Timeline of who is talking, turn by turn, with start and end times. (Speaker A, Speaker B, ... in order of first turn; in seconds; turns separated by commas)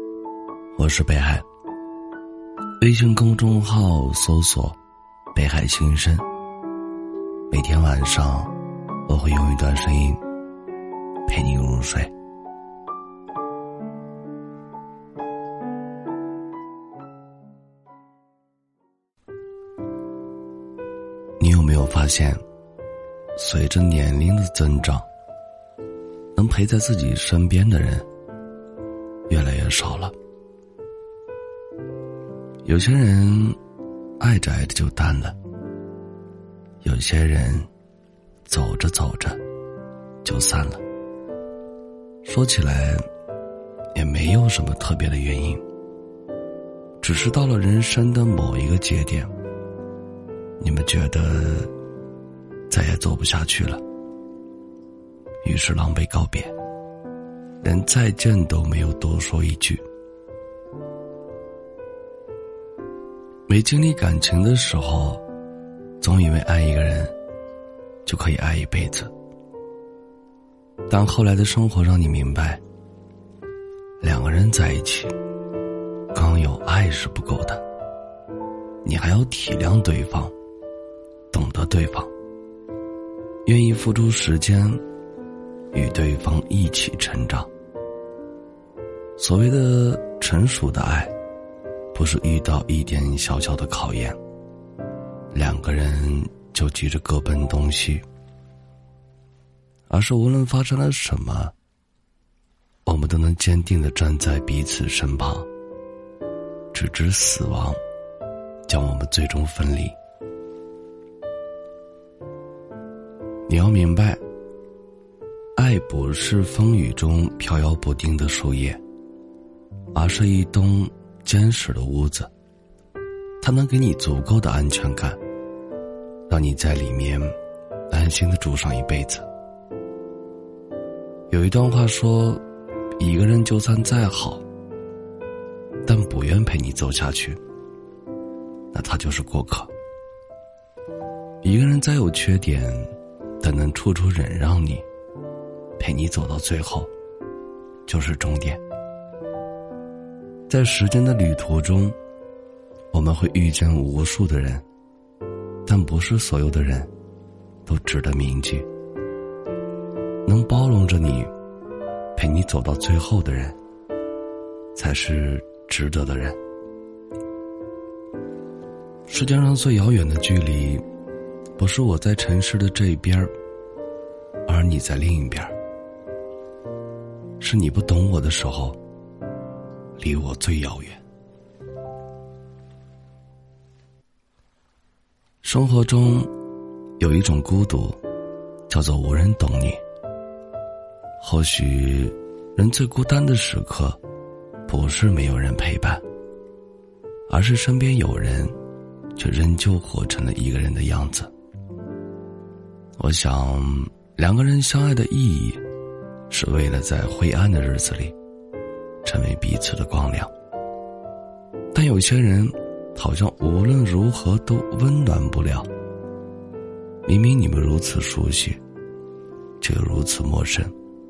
Speaker A: 0.8-1.4, Speaker A: 2.8-4.8, Speaker A: 5.3-6.2, Speaker A: 7.5-8.5, Speaker A: 9.1-10.2, Speaker A: 11.3-12.1, Speaker A: 21.4-22.4, Speaker A: 23.4-25.1, Speaker A: 26.4-28.1, Speaker A: 29.3-30.1, Speaker A: 32.6-33.6, Speaker A: 34.2-35.4, Speaker A: 36.8-37.7, Speaker A: 38.5-39.4, Speaker A: 40.2-40.8, Speaker A: 42.2-43.0, Speaker A: 44.0-45.6, Speaker A: 47.0-49.3, Speaker A: 50.6-51.7, Speaker A: 52.7-53.8, Speaker A: 55.4-56.5, Speaker A: 57.6-59.8, Speaker A: 63.5-65.2, Speaker A: 66.0-67.1, Speaker A: 68.0-69.1, Speaker A: 70.9-72.6, Speaker A: 74.0-75.2, Speaker A: 76.1-77.6, Speaker A: 78.8-80.3, Speaker A: 81.3-82.1, Speaker A: 83.5-84.8, Speaker A: 85.7-87.5, Speaker A: 89.2-91.1, Speaker A: 91.9-94.2, Speaker A: 95.3-98.0, Speaker A: 99.9-101.5, Speaker A: 102.9-105.5, Speaker A: 106.7-107.8, Speaker A: 108.7-110.0, Speaker A: 113.5-114.2, Speaker A: 115.6-118.8, Speaker A: 119.9-122.3, Speaker A: 123.4-125.2, Speaker A: 126.3-127.3, Speaker A: 127.9-129.3, Speaker A: 131.3-132.4, Speaker A: 133.0-134.4, Speaker A: 135.9-137.4, Speaker A: 138.7-139.7, Speaker A: 141.4-144.8, Speaker A: 145.8-146.9, Speaker A: 147.9-148.6, Speaker A: 150.5-152.0, Speaker A: 152.9-154.6, Speaker A: 155.7-156.9, Speaker A: 157.7-158.7, Speaker A: 160.3-161.3, Speaker A: 162.2-163.6, Speaker A: 164.8-166.4, Speaker A: 169.1-170.8, Speaker A: 171.6-173.3, Speaker A: 174.5-175.5, Speaker A: 177.4-178.8, Speaker A: 180.0-181.0, Speaker A: 185.4-186.3, Speaker A: 187.0-188.0, Speaker A: 188.7-189.8, Speaker A: 191.2-194.0, Speaker A: 194.7-196.0, Speaker A: 197.3-198.5, Speaker A: 199.2-201.3, Speaker A: 203.0-205.6, Speaker A: 206.3-208.2, Speaker A: 209.0-210.3, Speaker A: 211.7-215.7, Speaker A: 217.1-218.6, Speaker A: 219.6-220.7